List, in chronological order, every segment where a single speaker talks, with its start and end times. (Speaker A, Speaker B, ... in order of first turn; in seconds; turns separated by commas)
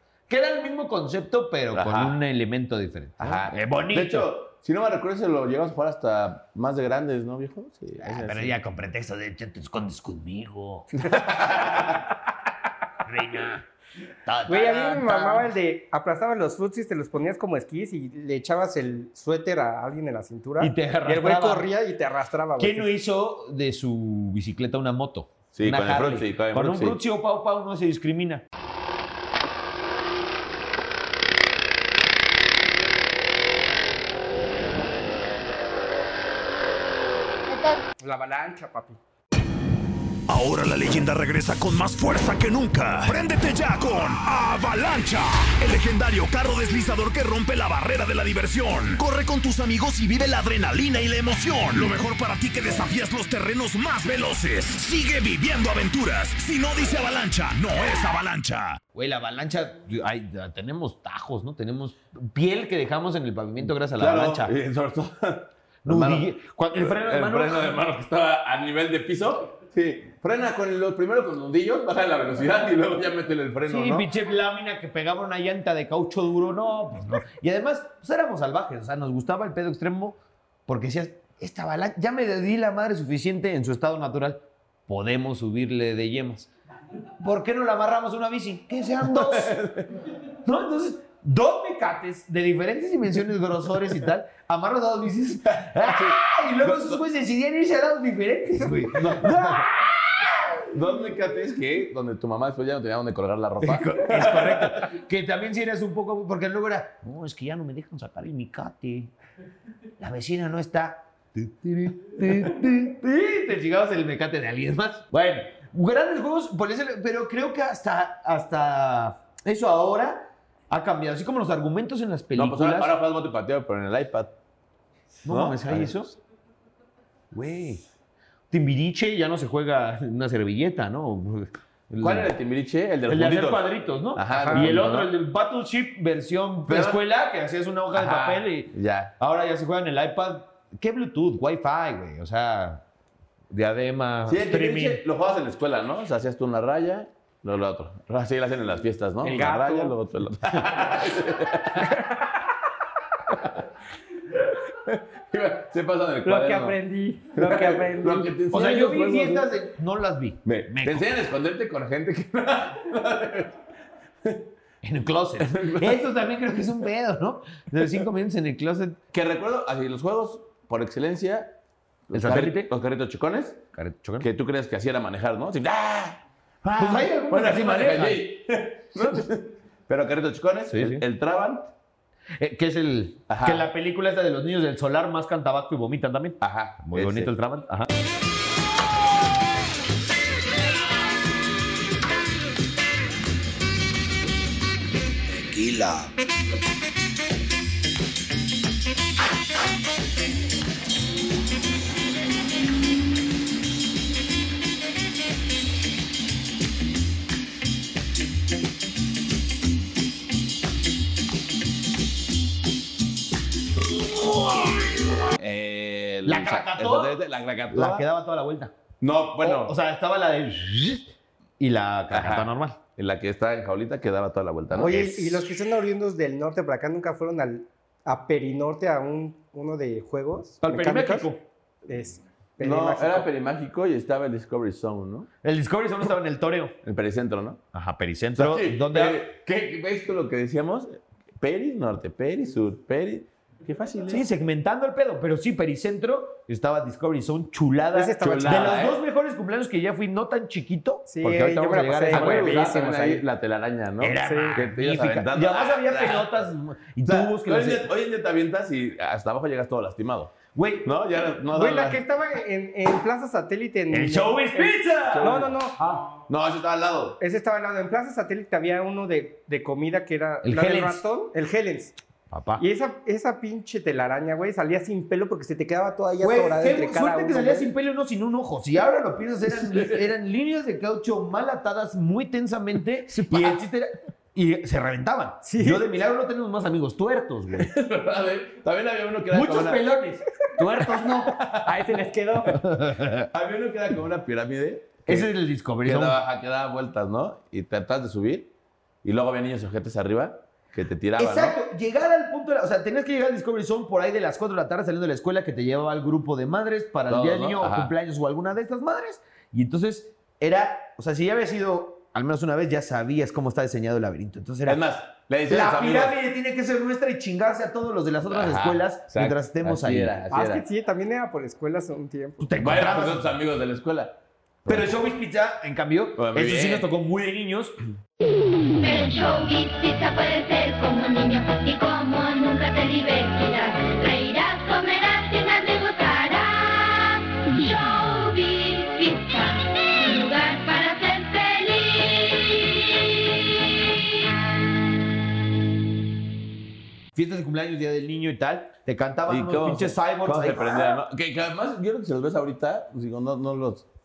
Speaker A: 0.3-4.3, Speaker B: 1.7-2.2, Speaker B: 3.2-8.6, Speaker A: 8.0-11.8, Speaker B: 11.0-12.0, Speaker A: 13.0-13.7, Speaker A: 14.2-15.5, Speaker C: 14.5-22.9, Speaker A: 20.6-21.7, Speaker A: 22.6-28.4, Speaker B: 25.5-27.0, Speaker C: 38.0-39.0, Speaker D: 40.3-58.8, Speaker A: 58.9-64.5, Speaker B: 64.0-74.1, Speaker A: 65.8-67.8, Speaker A: 73.7-86.5, Speaker A: 87.2-89.6, Speaker B: 89.0-89.9, Speaker A: 90.4-100.7, Speaker B: 95.6-97.0, Speaker B: 99.0-99.6, Speaker B: 100.7-104.9, Speaker A: 103.6-109.1, Speaker A: 110.0-122.9, Speaker B: 122.4-124.3, Speaker A: 125.2-126.2, Speaker B: 125.3-126.0, Speaker A: 127.3-127.8, Speaker A: 128.5-132.3, Speaker B: 132.0-135.1, Speaker A: 133.1-142.8, Speaker C: 134.3-134.7, Speaker B: 136.7-137.0, Speaker B: 137.9-139.1, Speaker A: 143.5-145.0, Speaker B: 144.3-151.9, Speaker C: 149.2-150.0, Speaker B: 153.3-153.6, Speaker B: 154.4-156.8, Speaker C: 156.2-158.3, Speaker B: 157.3-159.5, Speaker A: 158.5-161.2, Speaker B: 160.5-163.6, Speaker A: 164.8-169.0, Speaker B: 165.4-166.1, Speaker B: 169.1-171.5, Speaker B: 172.1-173.6, Speaker A: 172.1-172.7, Speaker A: 173.7-174.3, Speaker B: 174.2-181.7, Speaker A: 176.7-178.3, Speaker A: 180.7-181.0, Speaker A: 182.4-187.9, Speaker B: 183.3-183.7, Speaker B: 186.4-187.3, Speaker A: 195.3-196.1, Speaker B: 215.3-218.1, Speaker A: 216.2-217.2, Speaker A: 217.7-218.7, Speaker B: 219.0-219.7, Speaker A: 219.4-222.8, Speaker B: 222.1-225.5, Speaker C: 224.7-231.3, Speaker A: 230.6-231.4, Speaker C: 231.9-233.3, Speaker B: 232.6-235.3, Speaker A: 235.4-236.8, Speaker B: 236.8-237.6, Speaker A: 237.7-239.2, Speaker B: 238.4-244.2, Speaker A: 244.1-252.8, Speaker C: 247.9-248.9, Speaker B: 248.2-249.0, Speaker C: 251.1-253.2, Speaker B: 252.1-256.3, Speaker A: 254.0-257.9, Speaker C: 254.2-254.6, Speaker B: 257.1-262.0, Speaker A: 260.5-260.9, Speaker C: 261.5-265.8, Speaker A: 263.9-266.1, Speaker B: 265.1-265.5, Speaker B: 266.3-267.2, Speaker C: 267.2-272.0, Speaker A: 270.4-271.0, Speaker A: 272.3-272.6, Speaker C: 272.6-277.7, Speaker A: 276.2-287.7, Speaker C: 285.4-285.9, Speaker B: 287.6-289.8, Speaker A: 289.3-291.4, Speaker B: 291.3-291.7, Speaker C: 291.6-292.6, Speaker A: 292.5-293.3, Speaker B: 293.3-295.3, Speaker A: 295.1-296.2, Speaker B: 295.8-298.5, Speaker B: 299.0-301.6, Speaker A: 301.2-314.8, Speaker B: 307.1-307.9, Speaker B: 314.7-316.1, Speaker A: 315.4-320.2, Speaker B: 318.3-320.6, Speaker C: 320.3-322.4, Speaker A: 322.4-323.4, Speaker B: 322.6-324.1, Speaker B: 324.7-324.9, Speaker A: 324.7-327.8, Speaker B: 326.2-326.9, Speaker E: 328.8-344.0, Speaker A: 347.1-351.0, Speaker B: 349.3-353.9